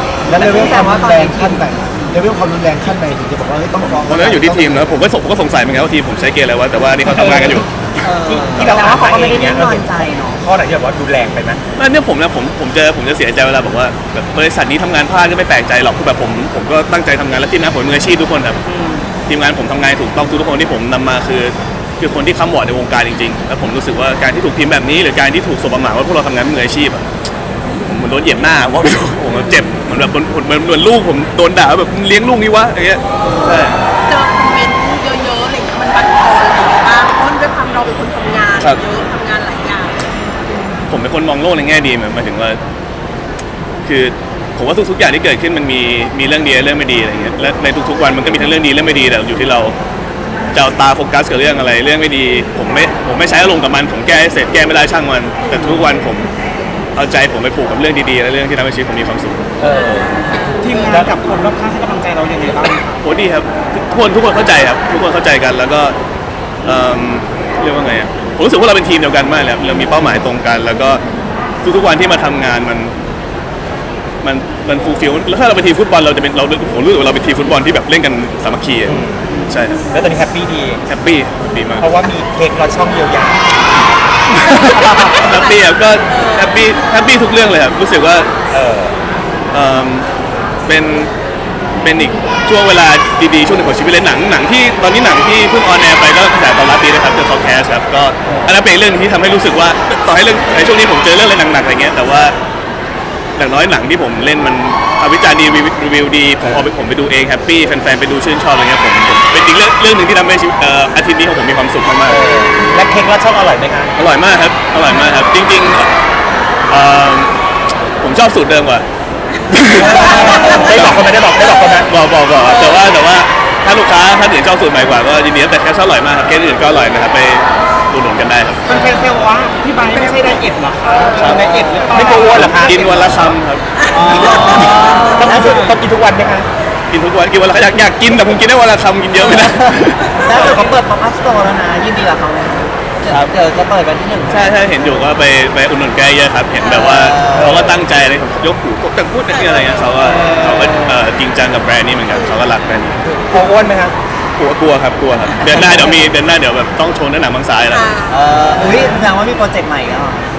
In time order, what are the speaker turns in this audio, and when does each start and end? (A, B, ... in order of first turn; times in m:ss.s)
0:00.2-0:05.0 A
0:00.3-0:02.2 B
0:03.8-0:08.1 C
0:07.1-0:07.6 D
0:08.0-0:10.4 B
0:08.3-0:11.6 D
0:11.8-0:18.6 C
0:18.6-0:19.1 B
0:19.3-0:27.0 C
0:27.8-0:33.8 C
0:34.1-0:40.0 E
0:40.9-0:42.6 C
0:43.8-0:49.7 C
0:50.5-0:56.3 C
0:57.0-0:59.4 C
0:59.6-1:00.2 D
0:59.7-1:00.7 E
1:00.6-1:02.8 F
1:00.7-1:01.1 D
1:03.0-1:05.9 C
1:06.6-1:11.0 C
1:11.6-1:12.9 C
1:14.2-1:19.0 C
1:18.9-1:19.2 D
1:19.5-1:19.8 C
1:19.9-1:20.8 D
1:20.9-1:21.8 C
1:21.8-1:23.4 D
1:24.3-1:28.3 C
1:24.8-1:26.6 E
1:28.5-1:29.0 D
1:29.5-1:30.1 C
1:30.6-1:31.1 C
1:31.8-1:42.3 C
1:43.4-1:52.3 C
1:52.1-1:53.9 D
1:54.0-1:55.9 C
1:56.7-1:57.3 C
1:58.0-1:58.8 C
1:59.5-2:01.1 C
1:59.7-2:01.9 D
2:01.9-2:08.7 C
2:02.4-2:02.8 E
2:08.7-2:12.6 F
2:11.1-2:11.5 C
2:11.2-2:12.2 B
2:11.9-2:13.4 D
2:12.3-2:13.8 C
2:13.8-2:15.2 E
2:13.9-2:15.8 F
2:14.1-2:16.5 D
2:14.2-2:15.4 B
2:16.9-2:20.6 C
2:19.2-2:24.8 B
2:23.1-2:23.3 C
2:24.3-2:33.0 C
2:26.5-2:27.1 E
2:26.9-2:27.8 B
2:27.3-2:27.8 D
2:29.3-2:29.9 E
2:30.0-2:30.9 B
2:32.1-2:32.4 E
2:33.1-2:33.9 D
2:34.4-2:37.9 C
2:37.7-2:38.2 E
2:38.1-2:40.2 B